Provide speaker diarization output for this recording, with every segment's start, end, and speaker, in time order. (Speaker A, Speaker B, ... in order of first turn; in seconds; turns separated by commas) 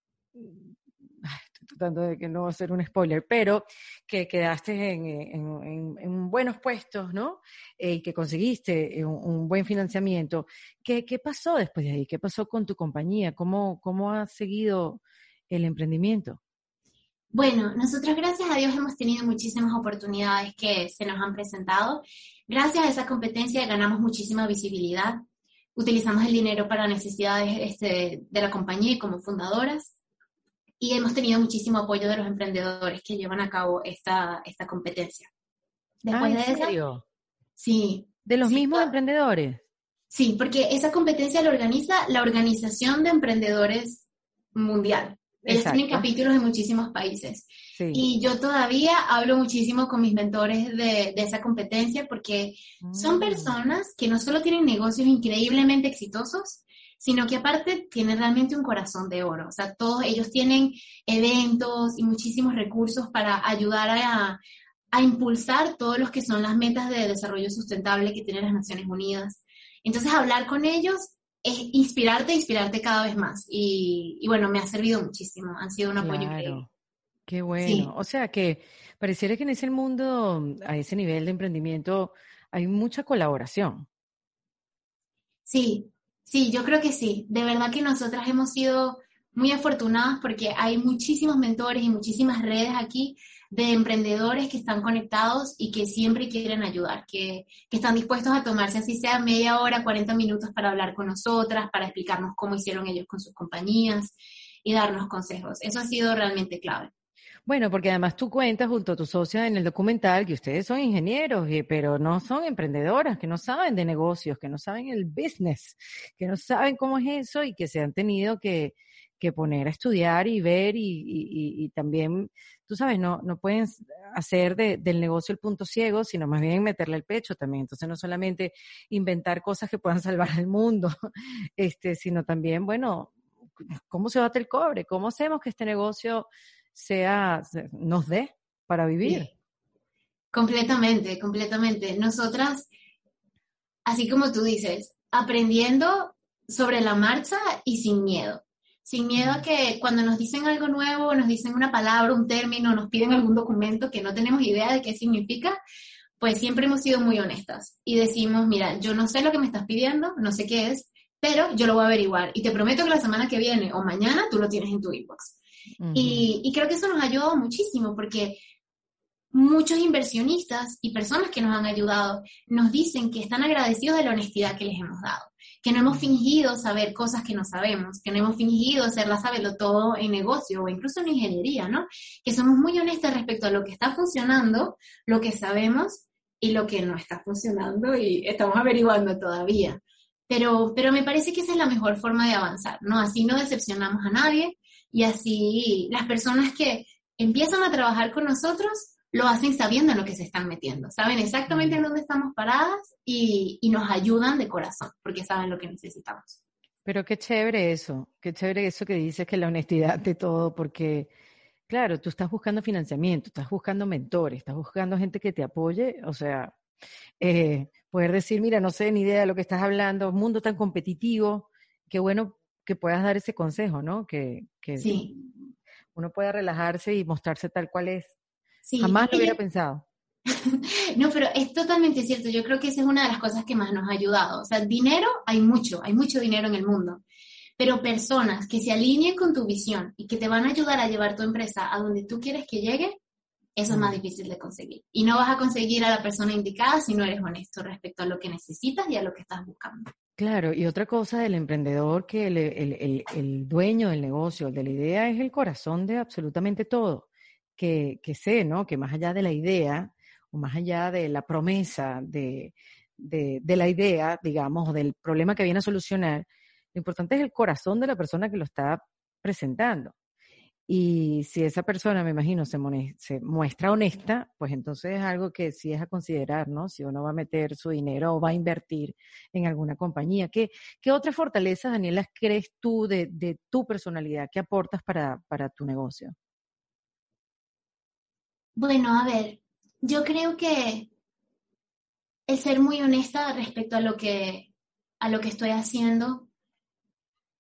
Speaker A: 0.4-0.7, Speaker A: 1.2-16.4, Speaker B: 17.3-25.2, Speaker B: 25.8-29.9, Speaker B: 30.8-35.3, Speaker B: 36.0-36.8, Speaker A: 36.1-37.0, Speaker B: 37.6-38.9, Speaker A: 38.3-39.6, Speaker B: 40.1-64.4, Speaker A: 45.5-46.1, Speaker A: 47.8-48.0, Speaker A: 52.8-53.5, Speaker B: 64.9-76.6, Speaker A: 76.0-76.7, Speaker A: 77.3-83.9, Speaker B: 77.6-77.9, Speaker B: 85.5-106.9, Speaker A: 107.5-130.9, Speaker A: 131.6-133.1, Speaker A: 133.9-139.3, Speaker B: 139.0-139.3, Speaker B: 140.3-142.7, Speaker B: 143.9-155.6, Speaker A: 149.2-149.4, Speaker B: 156.2-165.4, Speaker A: 165.8-166.3, Speaker B: 165.9-168.4, Speaker B: 169.3-206.4, Speaker A: 201.5-201.8, Speaker A: 206.9-211.1, Speaker A: 211.7-216.5, Speaker A: 217.2-225.3, Speaker B: 224.8-225.1, Speaker A: 225.9-228.1, Speaker B: 228.7-229.3, Speaker A: 228.8-229.8, Speaker B: 230.3-237.0, Speaker B: 237.6-243.0, Speaker B: 243.6-249.9, Speaker A: 243.7-244.0, Speaker A: 250.2-257.1, Speaker A: 257.6-269.9, Speaker A: 270.7-286.1, Speaker B: 288.6-290.9, Speaker B: 292.3-294.5, Speaker B: 295.0-296.3